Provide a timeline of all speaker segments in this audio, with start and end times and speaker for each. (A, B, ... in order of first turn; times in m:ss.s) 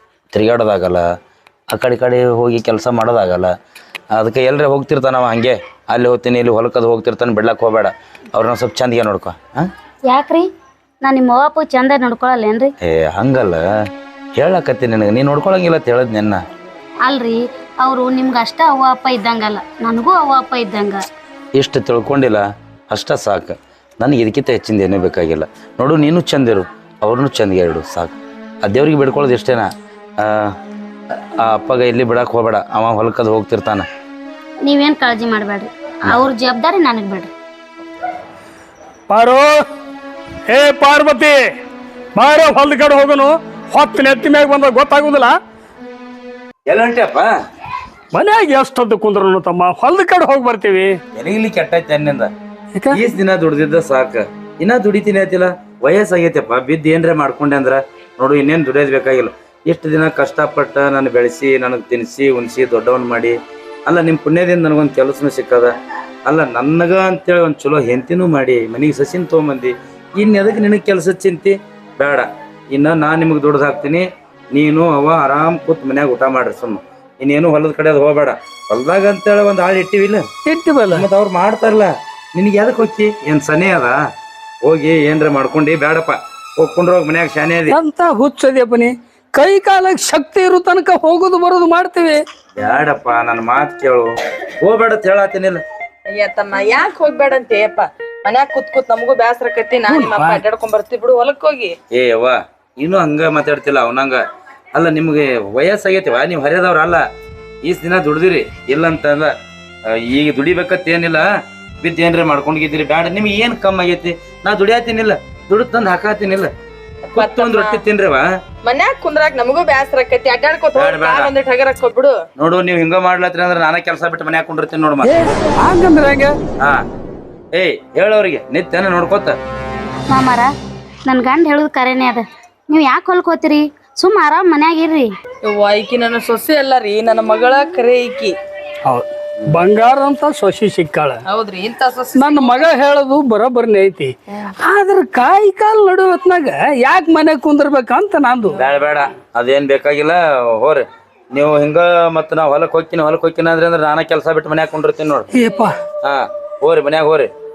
0:00.3-0:01.0 A
0:01.7-0:03.5 A
0:04.1-0:09.6 A
0:10.1-0:10.5 B
0:11.0-0:12.7 B
0:12.8-0:13.6 A
0:14.4-0:16.4 A
0:17.0-0:21.0 B
0:21.6-0:29.7 A
0:30.2-0:30.5 A
0:31.4-0:33.9 A
0:34.6-0:37.3 B
0:39.1-0:39.7 C
0:40.5-0:41.4 C
0:42.2-0:45.4 C
0:46.7-0:47.3 A
0:48.1-0:51.0 C
0:51.2-0:52.3 A
0:52.8-0:53.0 C
0:52.9-1:03.4 A
1:03.9-1:05.7 A
1:06.3-1:20.2 A
1:20.5-1:21.1 C
1:20.9-1:23.9 A
1:24.6-1:27.8 A
1:27.7-1:32.2 C
1:32.6-1:35.6 A
1:36.1-1:41.7 D
1:39.8-1:40.4 C
1:41.9-1:44.2 A
1:44.7-1:47.0 A
1:47.6-1:49.3 A
1:49.9-1:51.2 A
1:51.8-1:56.5 A
1:57.1-1:57.8 D
1:57.2-1:58.2 A
1:58.6-2:02.1 D
2:00.8-2:01.3 A
2:02.4-2:05.1 A
2:05.0-2:06.4 C
2:07.5-2:09.4 A
2:10.1-2:10.5 B
2:11.1-2:15.1 B
2:15.4-2:18.3 D
2:18.9-2:21.2 C
2:21.3-2:22.6 D
2:22.1-2:28.6 C
2:28.5-2:35.3 A
2:35.3-2:35.8 C
2:36.0-2:37.3 A